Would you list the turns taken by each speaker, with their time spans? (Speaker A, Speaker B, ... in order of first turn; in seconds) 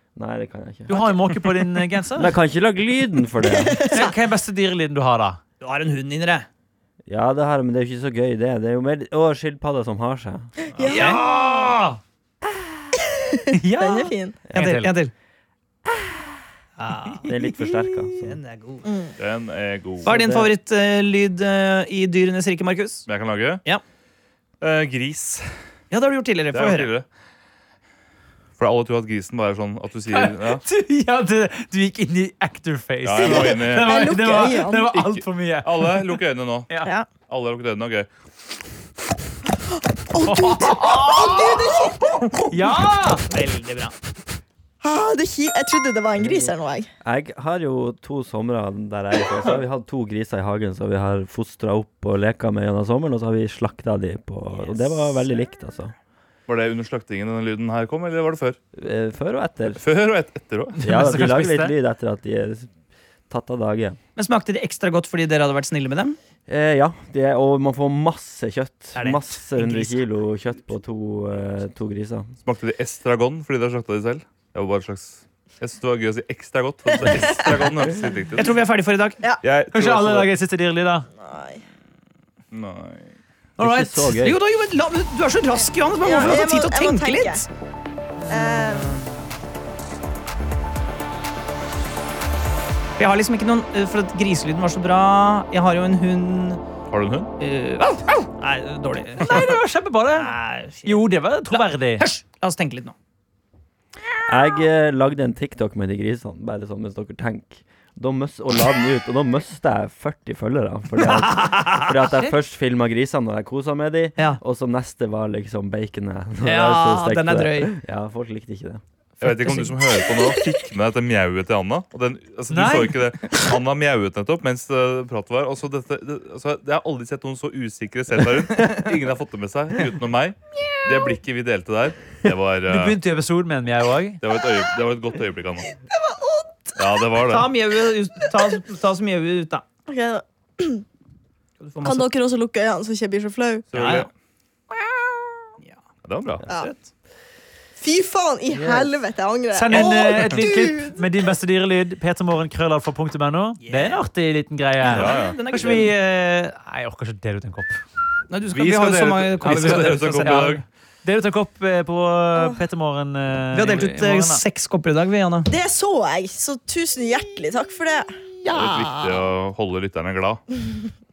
Speaker A: 0.1-1.0, 2.2-4.0, 7.1-10.5, 17.2-18.4, 20.1-20.5, 46.2-55.9, 58.8-59.8, 60.8-62.7, 63.3-64.0, 66.5-72.3, 83.6-84.4, 104.3-118.8, 148.5-149.0
Speaker B: 0.9-2.3, 3.9-5.4, 10.8-12.0, 13.6-14.9, 30.1-36.1, 40.2-41.5, 42.5-43.3, 60.8-61.8, 79.7-81.1, 99.2-102.1, 112.0-112.3, 122.5-122.9, 132.7-134.2, 149.5-157.8, 159.4-164.4
Speaker C: 3.6-4.1, 10.8-11.2, 13.0-14.4, 18.9-19.1, 33.3-34.9, 40.1-42.2, 44.8-46.9, 77.0-77.5, 81.2-81.6, 86.0-87.4, 88.3-89.0, 135.9-137.2, 139.9-140.8, 141.8-143.7, 144.9-145.2, 147.8-151.0, 165.5-169.1
Speaker D: 5.6-6.5, 10.8-11.2, 14.5-15.1, 16.8-17.3, 18.1-18.9, 20.0-23.1, 25.9-26.9, 42.2-42.7, 43.2-44.0, 64.2-66.2, 69.0-69.9, 78.4-79.2, 83.6-87.5, 88.3-89.1, 93.0-96.6, 97.4-99.6, 100.2-102.9, 111.1-111.9, 116.4-117.7, 119.2-119.8, 137.3-139.6, 141.6-142.1, 143.7-144.1, 146.5-146.8, 153.6-154.0, 154.8-155.9, 158.3-160.6, 163.5-165.5
Speaker E: 19.2-20.1, 23.1-23.6, 24.6-25.5, 26.5-27.1, 28.6-30.6, 33.0-34.1, 34.9-36.7, 37.3-38.1, 56.5-58.6, 59.7-60.8, 72.4-78.6, 79.4-80.3, 82.5-83.1, 96.9-97.3, 119.2-133.0, 134.2-135.7, 136.8-137.5, 143.7-144.1, 146.1-146.4, 154.9-155.4, 158.5-160.6, 168.5-170.4